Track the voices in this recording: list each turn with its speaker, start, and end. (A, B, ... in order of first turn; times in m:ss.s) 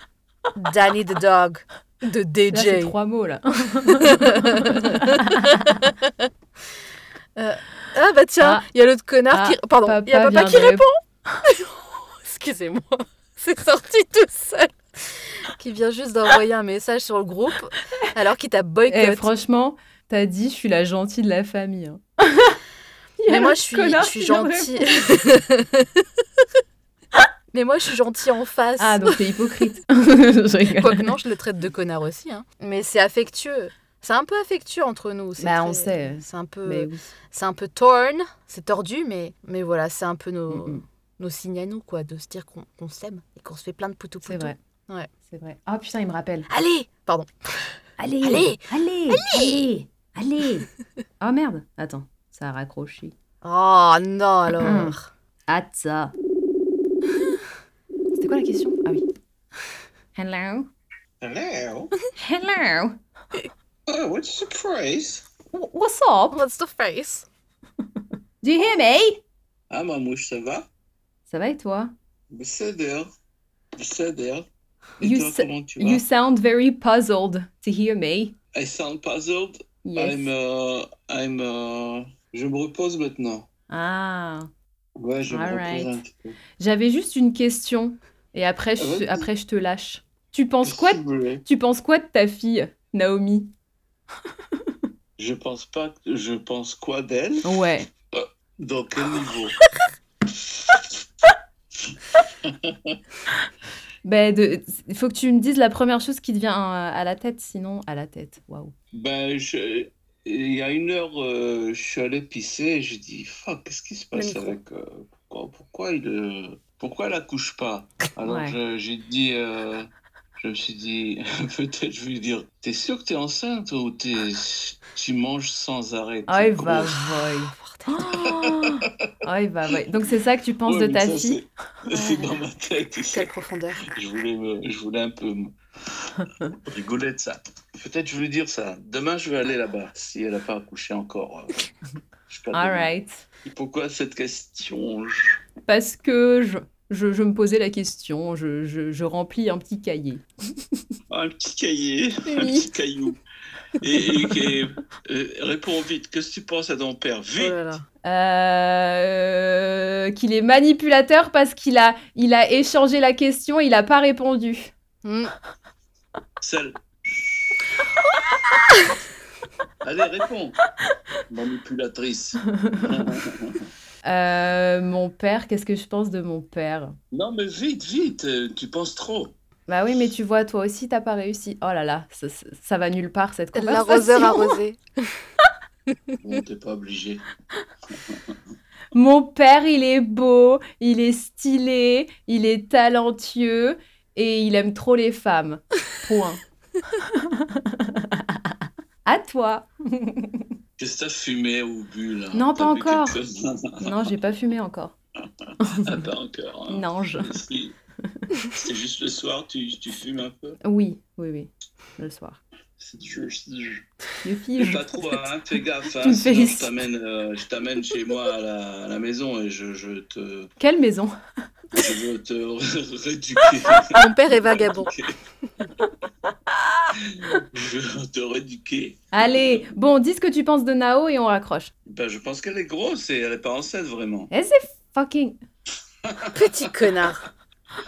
0:00.5-0:02.9 A
0:02.5-0:05.8 B
0:03.9-0:06.3 A
0:07.4-0:19.3 A
0:08.4-0:08.7 B
0:09.3-0:10.8 B
0:18.9-0:22.6 B
0:23.2-0:25.1 B
0:23.3-0:26.2 A
0:27.5-0:29.2 A
0:28.8-0:31.2 B
0:30.7-0:45.1 A
0:35.4-0:37.1 B
0:40.5-0:40.8 B
0:44.2-0:44.6 B
0:45.3-0:46.5 B
0:46.5-0:49.6 A
0:48.0-0:50.7 B
0:51.2-0:53.1 B
0:53.4-0:55.1 A
0:54.6-0:55.0 B
0:55.5-0:56.1 B
0:58.2-0:59.0 B
1:00.2-1:00.7 B
1:01.2-1:01.9 C
1:02.2-1:03.0 B
1:03.9-1:05.2 C
1:05.5-1:06.4 B
1:06.3-1:07.3 A
1:08.4-1:09.2 B
1:09.7-1:10.7 C
1:11.3-1:11.9 B
1:12.3-1:13.1 C
1:13.8-1:14.4 C
1:15.0-1:16.0 C
1:15.0-1:18.3 B
1:18.5-1:23.5 C
1:19.8-1:20.2 B
1:23.7-1:24.5 B
1:25.0-1:26.4 C
1:25.3-1:26.0 B
1:26.6-1:33.5 B
1:28.8-1:29.3 C
1:30.6-1:31.4 C
1:35.2-1:37.5 C
1:37.4-1:37.9 B
1:38.1-1:39.6 C
1:40.5-1:40.9 C
1:41.9-1:43.0 C
1:44.0-1:48.7 B
1:48.9-2:07.0 C
1:54.1-1:54.6 A
1:58.2-1:58.6 B
2:06.3-2:11.4 B
2:07.3-2:08.1 A
2:08.2-2:08.8 C
2:10.6-2:13.3 C
2:12.0-2:12.2 A
2:13.1-2:13.8 A
2:13.9-2:21.7 C
2:22.3-2:22.9 C
2:22.5-2:23.2 B
2:23.4-2:25.4 C
2:25.6-2:30.8 B
2:31.1-2:33.2 C
2:32.2-2:32.7 B
2:33.8-2:37.6 C
2:37.4-2:37.8 A
2:38.0-2:44.7 B
2:45.0-2:45.3 A
2:46.4-2:47.6 C
2:49.8-2:50.6 C
2:51.3-2:53.7 C
2:52.5-2:53.0 B
2:54.0-2:57.0 B
2:57.1-2:59.3 C
2:59.7-3:04.6 B
3:03.5-3:05.1 A
3:06.2-3:07.2 C
3:07.9-3:08.3 C
3:08.9-3:18.5 B
3:19.0-3:20.5 B
3:20.8-3:24.1 C
3:22.3-3:23.2 B
3:23.8-3:24.9 B
3:25.4-3:27.8 C
3:25.6-3:26.0 B
3:26.7-3:27.4 B
3:28.4-3:30.6 C
3:30.6-3:32.4 B
3:32.8-3:33.8 C
3:34.2-3:34.9 B
3:34.6-3:40.5 C
3:36.0-3:36.7 B
3:40.6-3:41.1 B
3:41.7-3:45.2 C
3:43.9-3:44.9 A
3:46.5-3:46.8 B
3:46.9-3:49.6 C
3:49.1-3:51.7 B
3:51.8-3:54.3 C
3:54.3-3:55.4 B
3:56.0-3:56.4 C
3:56.3-3:57.3 A